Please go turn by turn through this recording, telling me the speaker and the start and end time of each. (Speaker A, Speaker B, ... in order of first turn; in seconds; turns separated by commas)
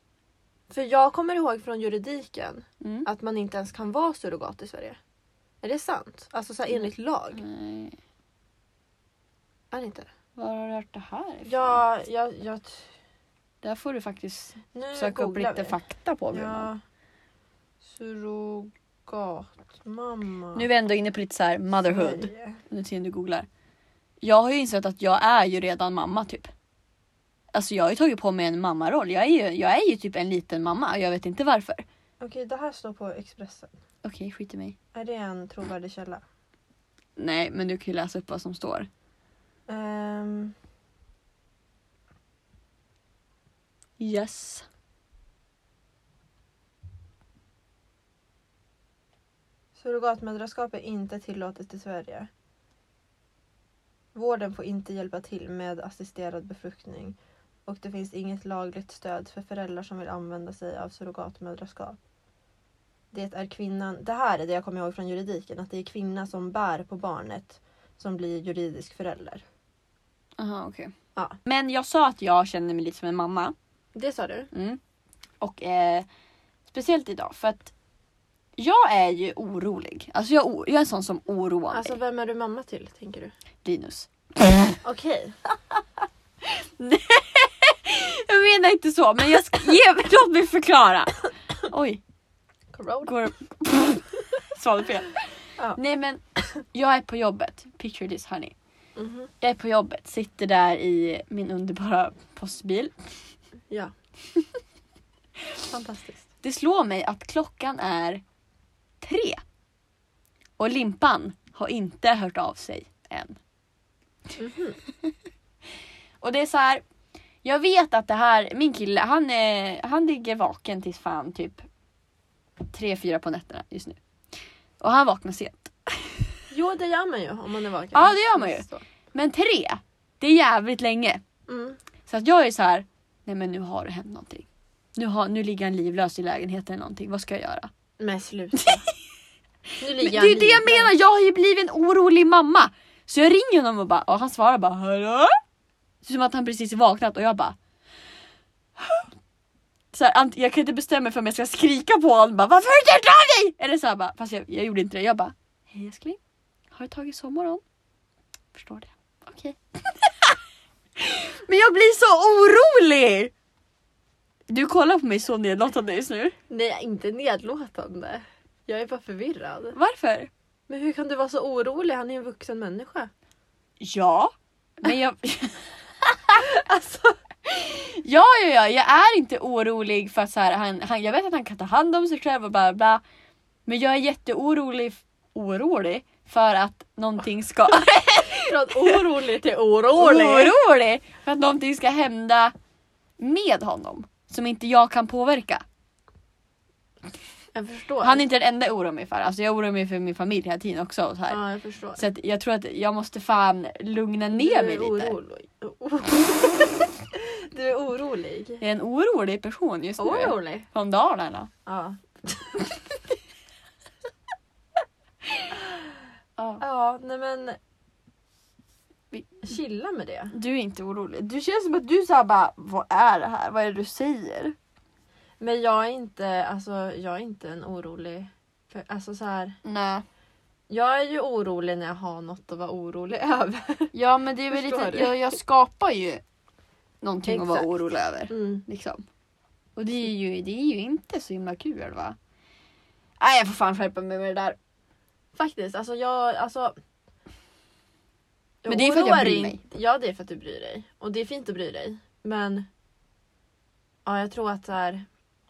Speaker A: 0.7-5.0, Speaker B: 2.8-3.1, Speaker A: 5.6-7.4, Speaker B: 6.7-8.0, Speaker A: 9.7-10.1, Speaker B: 10.4-11.8, Speaker A: 11.4-12.9, Speaker B: 13.6-16.7, Speaker A: 14.7-15.8, Speaker A: 16.3-16.8, Speaker A: 17.8-20.6, Speaker B: 20.5-23.5, Speaker A: 21.8-22.6, Speaker B: 24.2-26.5, Speaker B: 27.5-31.8, Speaker A: 32.2-33.7, Speaker B: 34.0-34.7, Speaker A: 34.9-36.2, Speaker B: 37.2-38.9, Speaker A: 39.7-40.5, Speaker B: 44.0-44.6, Speaker A: 49.7-52.3, Speaker A: 54.1-62.0, Speaker A: 63.1-69.4, Speaker B: 70.4-70.9, Speaker B: 71.4-73.5, Speaker A: 73.9-74.5, Speaker B: 74.5-74.8, Speaker B: 75.4-76.1, Speaker B: 76.7-77.7, Speaker B: 78.6-82.0, Speaker A: 81.7-83.3, Speaker B: 83.6-84.8, Speaker A: 84.8-85.4, Speaker B: 86.4-92.0, Speaker A: 92.7-93.1, Speaker B: 93.0-98.5, Speaker A: 99.0-99.3, Speaker B: 99.4-102.9, Speaker A: 105.7-106.2, Speaker B: 106.4-108.2, Speaker B: 109.0-109.4, Speaker B: 110.6-113.4, Speaker A: 114.4-114.8, Speaker B: 116.2-116.8, Speaker B: 117.4-121.6, Speaker B: 122.7-124.0, Speaker B: 124.8-126.3, Speaker A: 126.5-128.8, Speaker B: 127.9-131.2, Speaker A: 131.5-131.8, Speaker B: 132.1-137.7, Speaker A: 138.0-138.8, Speaker B: 138.6-138.9, Speaker A: 139.8-140.9, Speaker B: 140.0-145.3, Speaker B: 146.0-147.6, Speaker B: 148.8-149.1, Speaker B: 149.9-156.2, Speaker B: 156.7-157.6, Speaker B: 158.5-160.3, Speaker B: 161.0-163.3, Speaker B: 164.5-166.3, Speaker A: 166.5-169.8, Speaker B: 169.7-170.3, Speaker A: 170.7-173.1, Speaker B: 173.8-175.7, Speaker A: 176.3-177.2, Speaker B: 177.4-183.0, Speaker B: 183.7-189.0, Speaker A: 188.2-190.5, Speaker B: 189.9-192.5, Speaker B: 193.2-195.6, Speaker A: 197.5-198.2, Speaker B: 198.0-201.4, Speaker A: 201.3-202.0, Speaker B: 202.0-205.1, Speaker A: 204.3-208.6, Speaker B: 208.6-211.5, Speaker A: 210.0-210.7, Speaker A: 211.7-212.7, Speaker A: 216.6-217.6, Speaker B: 219.1-219.4, Speaker A: 219.4-220.3, Speaker B: 220.3-224.5, Speaker A: 225.4-229.6, Speaker B: 229.6-230.0, Speaker A: 230.7-233.9, Speaker B: 233.9-236.2, Speaker A: 234.5-235.3, Speaker B: 237.0-239.0, Speaker A: 237.3-237.7, Speaker A: 238.3-238.6, Speaker B: 239.8-242.2, Speaker B: 243.2-244.6, Speaker A: 245.3-246.7, Speaker A: 248.6-252.7, Speaker B: 248.7-249.6, Speaker A: 254.0-255.1